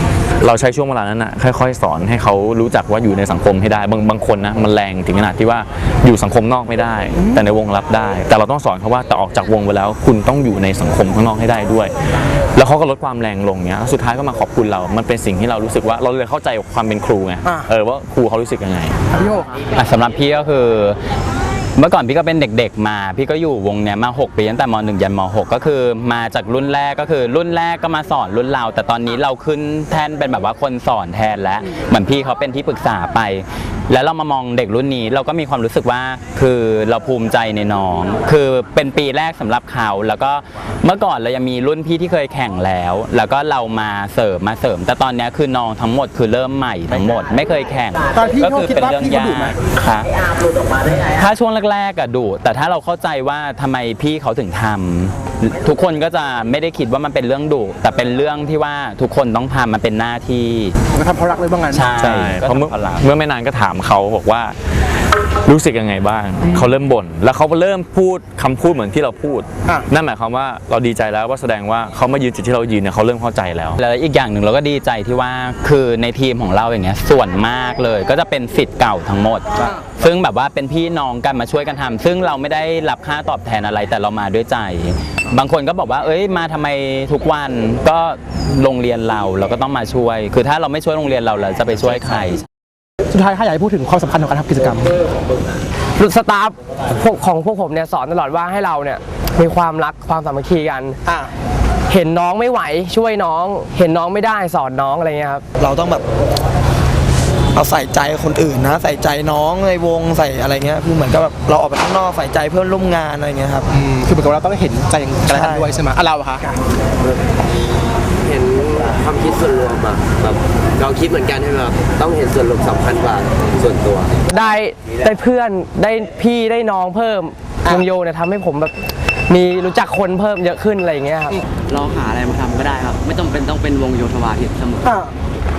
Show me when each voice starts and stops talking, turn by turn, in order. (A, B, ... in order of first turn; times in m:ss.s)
0:00.4-0:11.9 A
0:07.2-0:07.4 B
0:12.5-0:18.9 A
0:19.1-0:19.5 B
0:19.7-0:21.0 C
0:21.8-0:50.1 C
0:48.1-0:49.6 B
0:50.8-1:00.7 C
1:00.9-1:01.9 B
1:01.7-1:03.1 C
1:02.0-1:04.5 A
1:05.4-1:13.8 A
1:06.4-1:06.7 B
1:13.8-1:32.4 C
1:33.1-1:34.9 B
1:36.0-1:41.0 D
1:41.9-1:45.4 D
1:45.6-1:46.0 E
1:47.5-1:53.7 E
1:53.7-1:56.6 B
1:55.3-1:55.7 E
1:58.2-2:04.2 F
2:04.3-2:08.7 D
2:09.3-2:11.4 D
2:11.6-2:15.0 G